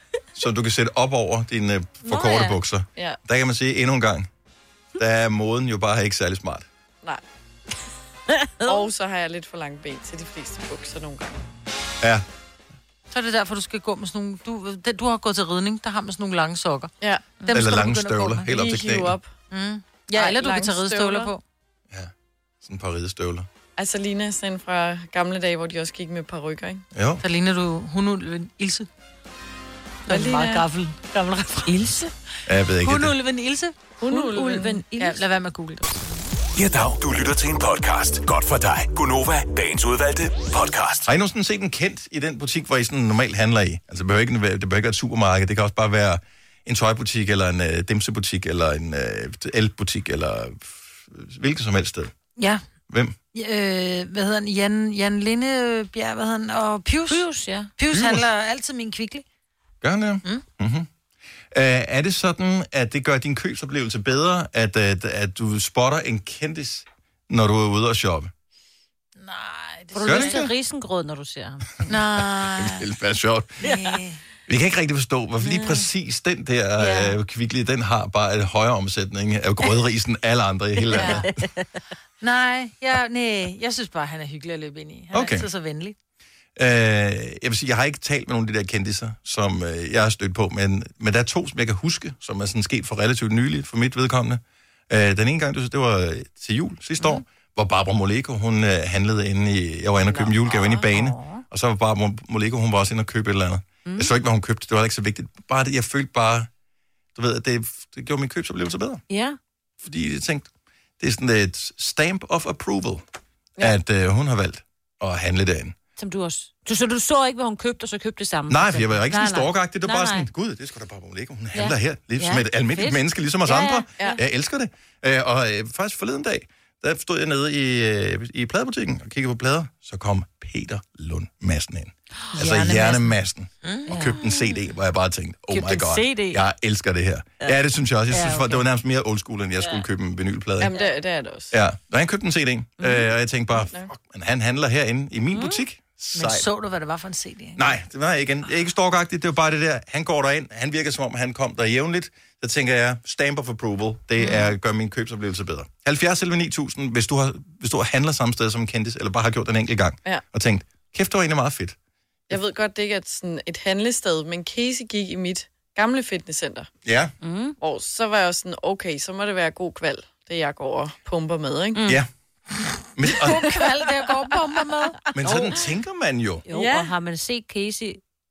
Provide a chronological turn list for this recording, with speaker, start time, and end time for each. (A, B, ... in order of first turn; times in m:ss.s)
0:00.3-0:04.3 A
0:02.0-0:02.6 B
0:05.0-0:06.7 A
0:08.4-0:08.8 B
0:08.6-0:11.4 C
0:13.1-0:18.5 D
0:17.0-0:17.4 C
0:17.5-0:19.2 A
0:18.5-0:19.3 C
0:19.5-0:21.4 D
0:20.1-0:21.3 C
0:22.6-0:23.5 A
0:23.8-0:26.8 C
0:26.9-0:27.2 A
0:27.2-0:28.9 D
0:30.1-0:30.7 C
0:30.1-0:32.1 D
0:31.7-0:32.0 B
0:32.4-0:33.2 A
0:32.8-0:33.8 D
0:34.0-0:34.8 C
0:34.0-0:35.2 B
0:34.9-0:35.9 D
0:36.6-0:41.1 E
0:41.0-0:52.1 A
0:52.9-0:53.1 A
0:53.3-0:59.2 D
0:57.1-0:57.7 B
0:57.9-0:58.3 A
0:59.8-1:00.9 A
1:01.5-1:08.3 A
1:09.2-1:10.5 D
1:09.9-1:11.9 B
1:10.0-1:10.5 A
1:11.8-1:13.6 A
1:11.9-1:12.8 D
1:13.6-1:14.2 D
1:14.5-1:21.4 A
1:15.4-1:15.8 B
1:20.8-1:21.6 B
1:20.9-1:21.2 D
1:22.2-1:25.9 D
1:25.1-1:25.5 A
1:26.6-1:46.5 A
1:40.1-1:41.4 B
1:40.5-1:40.8 C
1:43.8-1:44.1 B
1:47.1-1:49.0 A
1:49.1-1:49.4 B
1:49.8-1:53.0 A
1:53.6-1:55.7 A
1:56.0-2:00.3 B
1:58.5-2:20.7 A
2:01.5-2:04.2 B
2:12.3-2:13.0 B
2:12.4-2:12.8 D
2:13.9-2:14.4 B
2:15.5-2:16.4 B
2:20.6-2:21.5 C
2:21.5-2:26.5 A
2:22.8-2:23.1 B
2:23.6-2:23.9 C
2:25.3-2:25.6 B
2:26.1-2:27.6 D
2:27.6-2:41.8 A
2:42.3-2:46.7 C
2:46.8-2:47.1 A
2:47.2-2:47.5 B
2:47.6-2:51.9 C
2:51.7-2:52.0 B
2:53.0-2:53.4 A
2:53.2-2:55.0 D
2:55.1-2:56.4 A
2:55.2-2:55.5 B
2:56.5-2:58.0 B
2:56.5-2:56.9 C